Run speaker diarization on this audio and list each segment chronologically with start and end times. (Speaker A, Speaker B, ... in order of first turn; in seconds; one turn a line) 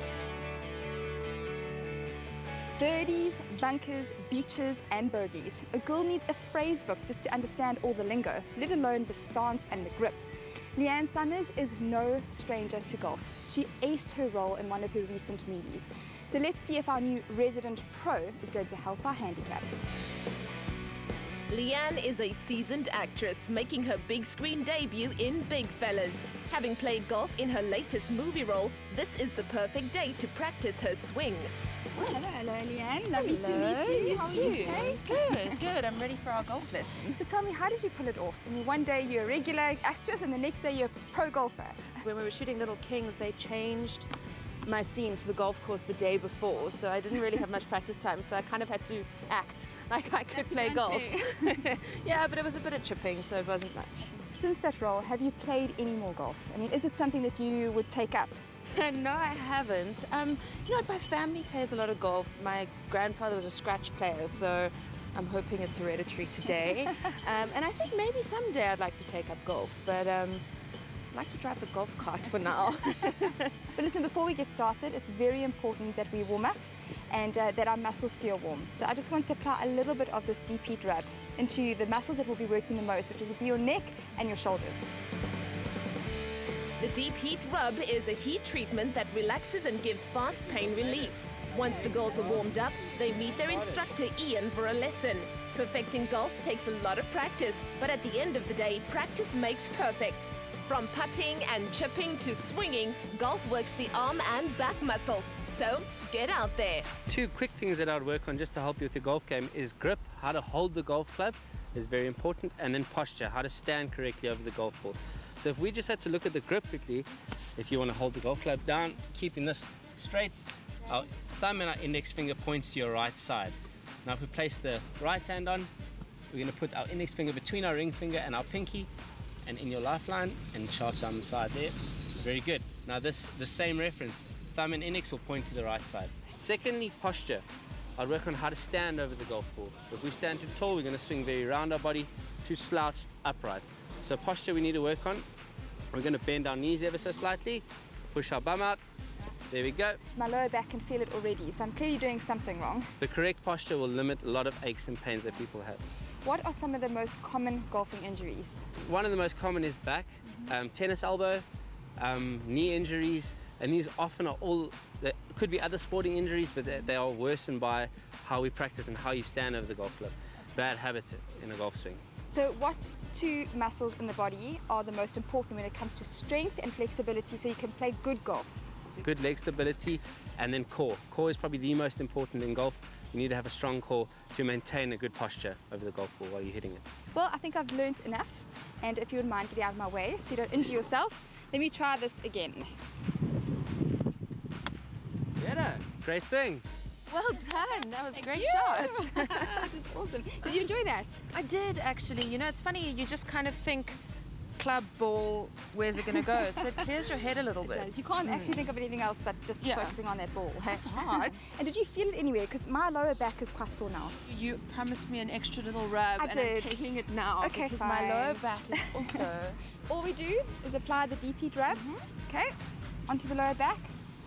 Speaker A: 2.8-10.2
Speaker A: 10.7-19.7
Speaker B: 21.5-31.5
Speaker A: 31.9-35.1
Speaker C: 33.1-37.2
Speaker A: 37.2-42.0
Speaker C: 42.0-44.1
Speaker C: 44.6-54.1
Speaker A: 50.3-51.5
Speaker A: 54.3-58.4
Speaker C: 58.7-70.4
Speaker C: 71.1-73.5
Speaker A: 73.7-84.9
Speaker B: 86.8-106.9
Speaker D: 107.0-125.7
Speaker D: 126.3-128.9
Speaker D: 129.4-137.4
Speaker D: 138.0-145.2
Speaker D: 145.9-148.8
Speaker D: 149.5-150.0
Speaker A: 150.1-152.9
Speaker D: 153.0-155.8
Speaker A: 156.2-158.7
Speaker D: 158.8-161.4
Speaker D: 162.0-172.0
Speaker A: 172.3-178.8
Speaker D: 179.0-186.8
Speaker A: 187.1-192.7
Speaker D: 195.4-196.6
Speaker C: 197.1-199.7
Speaker A: 198.1-201.2
Speaker C: 201.3-204.0
Speaker C: 204.6-208.7
Speaker A: 207.6-214.2
Speaker C: 209.6-210.0
Speaker C: 210.6-211.4
Speaker C: 214.2-219.6
Speaker A: 216.2-219.2
Speaker A: 219.9-222.5
Speaker C: 221.7-222.0
Speaker A: 223.1-223.9